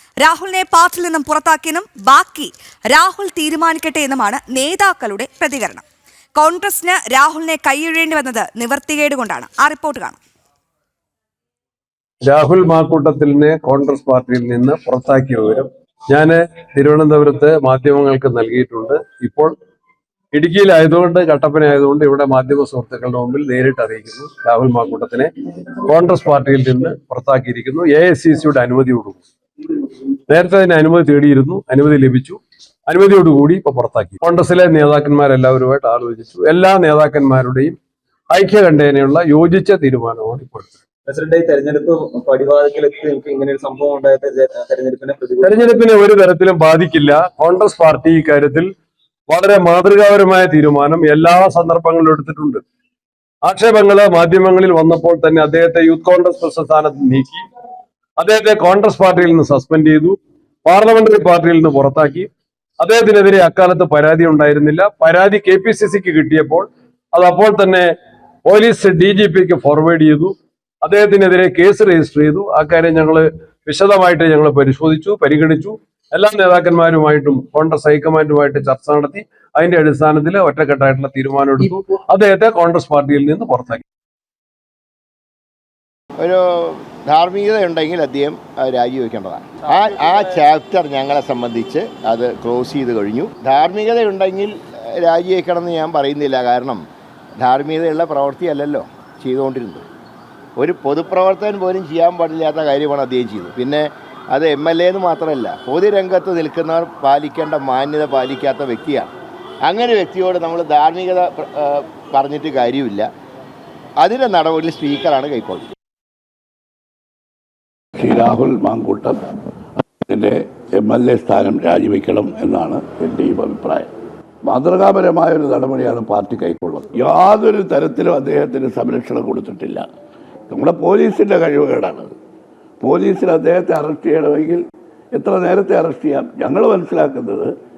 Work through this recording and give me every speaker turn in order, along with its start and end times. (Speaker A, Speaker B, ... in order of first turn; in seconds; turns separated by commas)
Speaker A: 0.2-5.8, Speaker A: 6.4-10.2, Speaker B: 12.2-19.5, Speaker B: 20.3-25.3, Speaker B: 25.9-29.2, Speaker B: 30.3-37.8, Speaker B: 38.3-40.7, Speaker C: 41.0-45.8, Speaker B: 45.4-48.7, Speaker B: 49.3-52.6, Speaker B: 53.4-57.4, Speaker B: 58.2-62.3, Speaker B: 62.8-67.9, Speaker B: 68.5-83.8, Speaker D: 86.2-96.9, Speaker D: 97.4-99.8, Speaker D: 100.6-109.1, Speaker D: 109.7-113.1, Speaker D: 114.0-115.7, Speaker E: 118.0-119.2, Speaker E: 120.0-123.9, Speaker E: 124.5-129.9, Speaker E: 130.5-132.1, Speaker E: 132.8-137.5